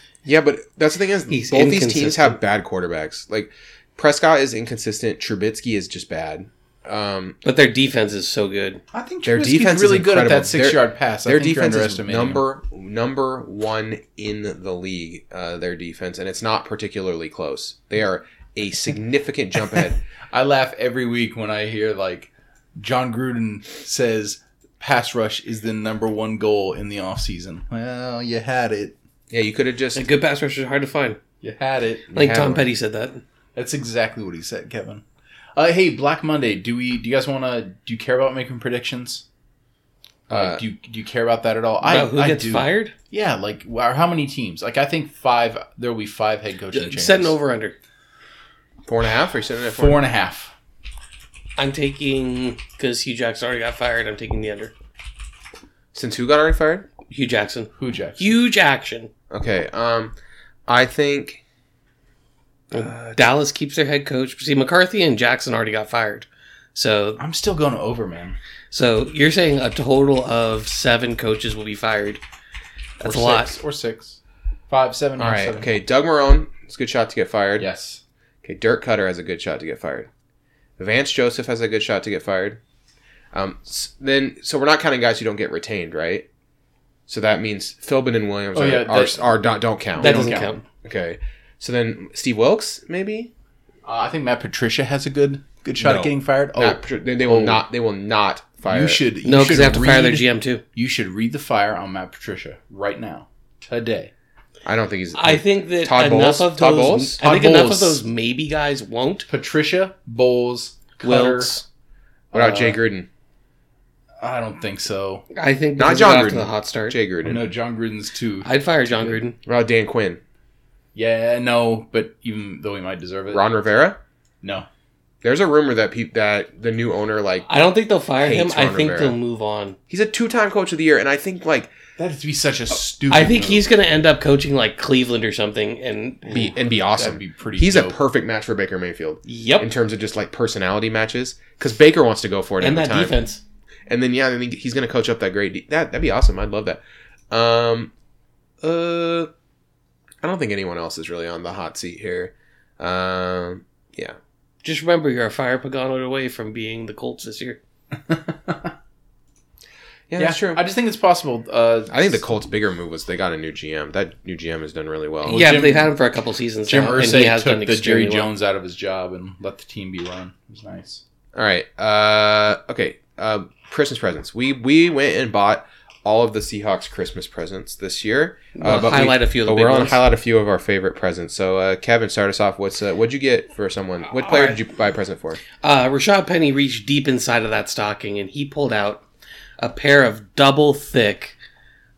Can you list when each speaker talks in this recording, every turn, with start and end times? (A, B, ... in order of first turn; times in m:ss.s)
0:00.2-0:07.4 A
0:01.3-0:02.4 B
0:07.4-0:08.8 B
0:08.9-0:12.4 C
0:09.2-0:20.0 A
0:20.3-0:29.0 C
0:29.3-0:30.0 A
0:30.0-0:31.2 B
0:31.4-0:32.1 C
0:32.1-0:32.6 A
0:32.2-0:33.2 B
0:33.6-0:35.0 C
0:35.6-0:39.2 C
0:40.3-0:40.6 A
0:40.3-0:47.4 C
0:41.8-0:42.9 B
0:46.7-0:47.8 B
0:48.9-0:50.0 A
0:49.7-0:50.5 C
0:51.6-0:54.7 B
0:55.9-0:56.9 A
0:57.1-0:59.1 B
0:57.8-0:58.3 C
0:59.3-1:00.2 A
1:00.7-1:01.4 A
1:02.7-1:03.2 A
1:02.7-1:07.2 B
1:07.2-1:08.4 C
1:08.7-1:12.2 B
1:13.0-1:15.8 C
1:13.0-1:13.6 B
1:15.2-1:17.7 A
1:17.6-1:18.0 C
1:18.4-1:20.1 A
1:20.8-1:22.6 A
1:23.3-1:26.3 A
1:27.1-1:33.3 A
1:28.5-1:29.2 C
1:30.0-1:30.5 C
1:30.0-1:30.6 B
1:33.8-1:37.6 C
1:35.8-1:39.0 A
1:38.7-1:44.1 C
1:39.2-1:40.6 B
1:44.6-1:47.2 A
1:45.2-1:49.3 B
1:47.2-1:48.0 C
1:49.3-1:51.6 C
1:51.0-1:51.6 B
1:52.3-1:52.8 C
1:52.3-1:53.1 A
1:54.2-1:55.3 C
1:55.3-1:57.0 B
1:55.8-1:57.4 A
1:57.2-1:59.2 C
1:58.4-1:59.4 B
1:59.5-2:00.2 A
2:01.0-2:03.5 C
2:03.3-2:04.0 A
2:04.4-2:04.7 C
2:05.2-2:07.5 A
2:07.5-2:09.8 B
2:08.2-2:09.2 A
2:09.9-2:11.7 A
2:12.0-2:13.7 C
2:13.1-2:16.5 B
2:16.3-2:23.2 A
2:16.9-2:18.0 C
2:19.3-2:19.7 B
2:22.6-2:23.4 B
2:23.9-2:26.8 A
2:27.3-2:27.9 A
2:28.6-2:29.3 A
2:30.2-2:34.2 A
2:34.6-2:37.6 B
2:38.1-2:38.7 C
2:40.1-2:40.6 A
2:40.2-2:42.2 C
2:41.9-2:45.5 A
2:45.2-2:45.9 C
2:45.3-2:48.3 B
2:46.7-2:51.0 C
2:51.4-3:05.4 A
2:58.6-3:00.0 B
3:04.3-3:04.6 B
3:05.6-3:09.0 B
3:09.6-3:11.4 B